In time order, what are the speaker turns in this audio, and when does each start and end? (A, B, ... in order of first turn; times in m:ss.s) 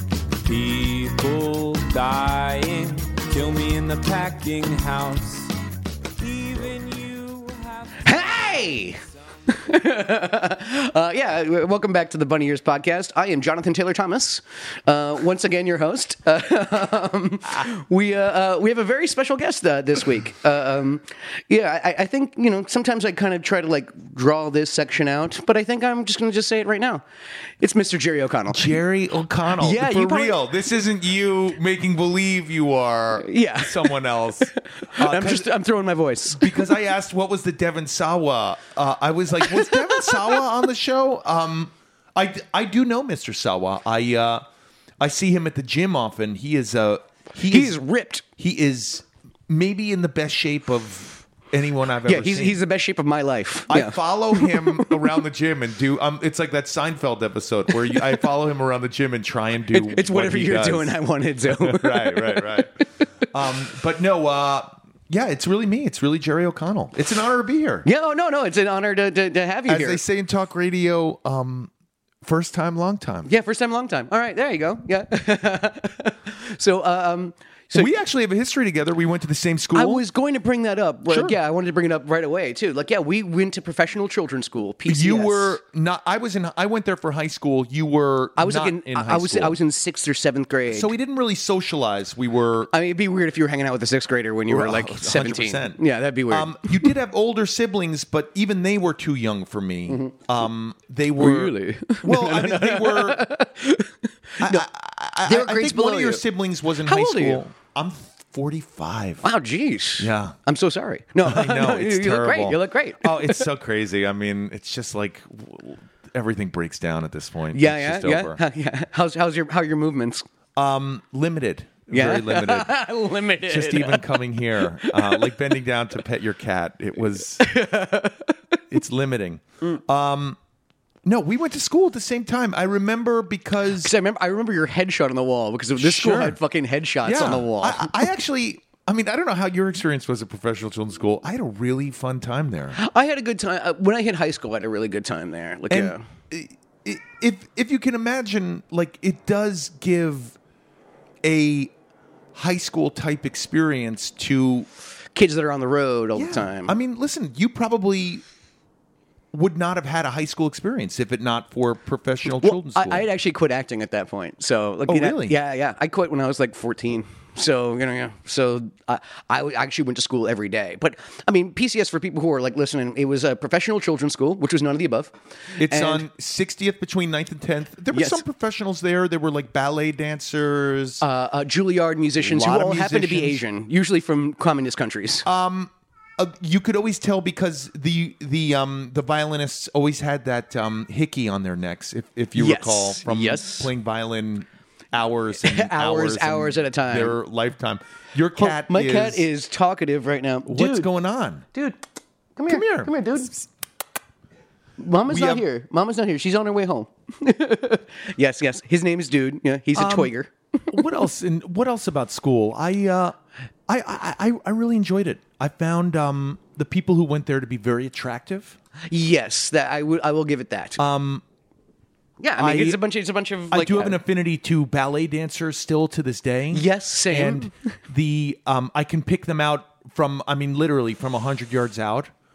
0:00.4-0:05.5 A
0:06.1-0:08.3 A
0:08.0-0:27.0 B
0:27.6-0:28.8 B
0:28.5-0:35.5 C
0:29.6-0:30.4 B
0:33.2-0:36.8 B
0:36.3-0:44.4 C
0:39.4-0:40.4 B
0:45.0-0:47.8 C
0:47.5-0:48.2 B
0:48.3-0:52.6 C
0:52.0-0:55.1 B
0:53.7-1:02.7 C
0:57.7-0:58.2 B
0:59.7-1:02.8 B
1:03.3-1:07.8 C
1:07.8-1:10.0 B
1:09.6-1:11.7 C
1:12.2-1:13.3 C
1:13.2-1:17.9 B
1:17.7-1:20.0 C
1:19.7-1:25.6 B
1:21.1-1:21.4 C
1:24.8-1:29.6 C
1:28.4-1:30.9 B
1:30.7-1:32.7 C
1:32.7-1:36.9 B
1:34.5-1:43.2 C
1:39.9-1:40.2 B
1:41.2-1:44.7 B
1:44.4-1:49.2 C
1:45.2-1:46.2 B
1:46.8-1:47.4 B
1:49.2-1:53.4 B
1:50.0-1:50.4 C
1:51.2-1:58.4 C
1:57.5-2:00.2 B
2:00.6-2:02.8 C
2:01.9-2:05.4 B
2:03.4-2:07.5 C
2:07.4-2:08.3 B
2:08.7-2:10.4 C
2:11.0-2:13.9 C
2:13.8-2:18.1 B
2:15.8-2:16.4 C
2:17.0-2:22.8 C
2:22.8-2:26.0 B
2:25.7-2:30.4 C
2:31.2-2:31.7 C
2:32.3-2:34.7 C
2:35.1-2:36.8 B
2:36.1-2:38.2 C
2:39.3-2:43.0 C
2:42.2-2:56.0 B
2:44.8-2:45.4 C
2:55.6-3:01.0 C
2:57.9-2:58.2 B
3:01.0-3:05.2 B
3:02.2-3:03.4 C
3:05.2-3:19.3 C
3:12.4-3:13.7 B
3:15.4-3:17.2 B
3:18.4-3:20.9 B
3:20.4-3:21.5 C
3:22.4-3:23.3 B
3:22.5-3:23.4 C
3:24.8-3:30.3 B
3:25.0-3:25.4 C
3:29.7-3:30.1 C
3:30.7-3:38.6 C
3:38.9-3:40.8 B
3:40.8-3:41.2 C
3:42.2-3:44.0 B
3:42.4-3:42.8 C
3:43.5-3:52.1 C
3:46.5-3:47.5 B